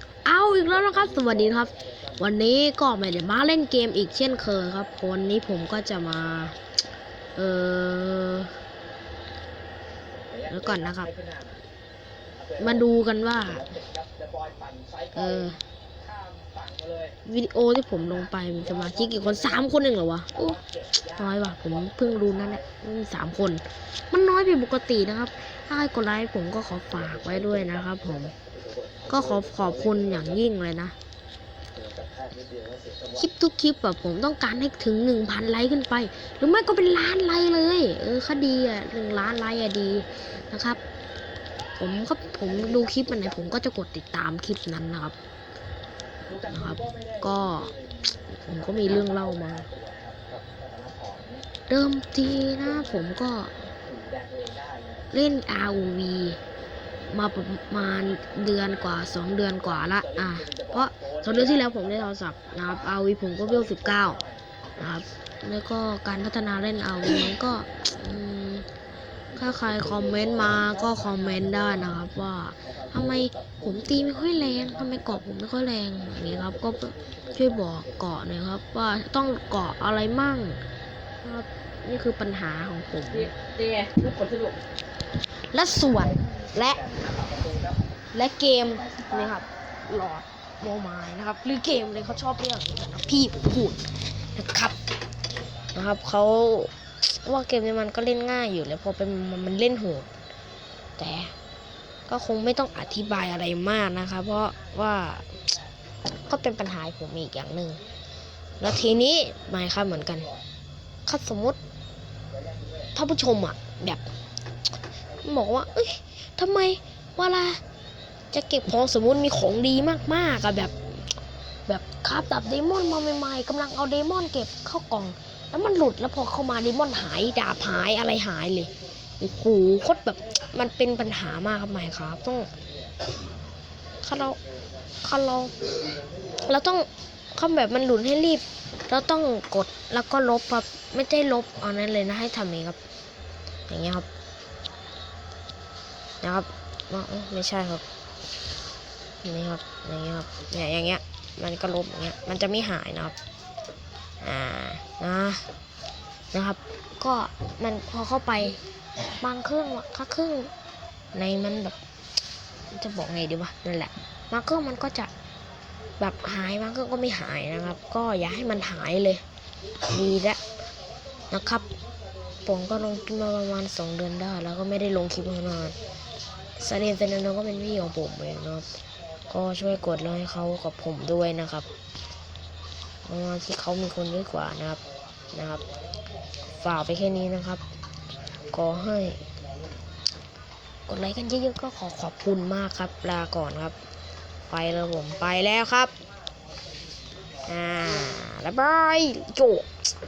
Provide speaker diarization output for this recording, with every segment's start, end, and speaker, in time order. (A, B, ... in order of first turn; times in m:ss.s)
0:00.2-0:06.6 A
0:00.7-0:02.1 B
0:07.4-0:08.5 A
0:10.3-0:11.6 B
0:10.5-0:11.1 A
0:12.6-0:13.7 A
0:13.5-0:15.3 B
0:15.1-0:15.6 A
0:16.0-0:17.2 B
0:17.2-0:20.6 A
0:18.4-0:19.6 B
0:20.4-0:22.6 B
0:21.2-0:28.3 A
0:27.1-0:30.3 B
0:29.1-0:30.9 A
0:31.8-0:33.2 B
0:33.2-0:40.8 A
0:41.8-0:45.1 A
0:42.4-0:43.3 B
0:46.3-0:51.4 B
0:46.4-0:47.7 A
0:48.3-0:49.7 A
0:51.7-0:53.5 A
0:53.8-0:55.0 B
0:55.1-0:56.4 A
0:57.1-1:04.2 A
0:59.8-1:01.9 B
1:03.6-1:04.4 B
1:04.8-1:08.6 A
1:09.4-1:11.5 B
1:09.4-1:20.6 A
1:12.8-1:15.1 B
1:16.2-1:18.1 B
1:21.2-1:23.3 A
1:23.3-1:24.6 B
1:25.5-1:26.8 A
1:26.0-1:27.8 B
1:28.1-1:34.8 A
1:28.8-1:29.4 B
1:35.7-1:40.1 A
1:41.0-1:41.3 A
1:42.1-1:45.3 A
1:46.2-1:47.8 A
1:48.6-1:50.3 A
1:51.0-1:51.6 A
1:52.3-1:52.8 B
1:52.9-1:54.0 A
1:55.2-1:57.6 A
1:58.3-2:01.0 A
2:01.7-2:12.5 A
2:14.0-2:14.4 A
2:15.0-2:15.7 A
2:16.4-2:22.8 A
2:23.7-2:24.1 A
2:26.2-2:27.8 A
2:29.2-2:33.1 A
2:34.2-2:35.4 A
2:36.3-2:38.6 A
2:39.2-2:40.5 A
2:41.1-2:41.8 A
2:42.7-2:45.1 A
2:46.0-2:49.2 A
2:49.9-2:50.4 A
2:51.3-2:51.7 A
2:52.4-2:55.8 A
2:56.6-2:58.6 A
2:59.3-3:01.6 A
3:03.0-3:04.8 A
3:05.3-3:05.6 A
3:06.6-3:07.6 A
3:08.5-3:09.2 A
3:10.9-3:13.8 A
3:14.5-3:15.9 A
3:17.4-3:19.7 A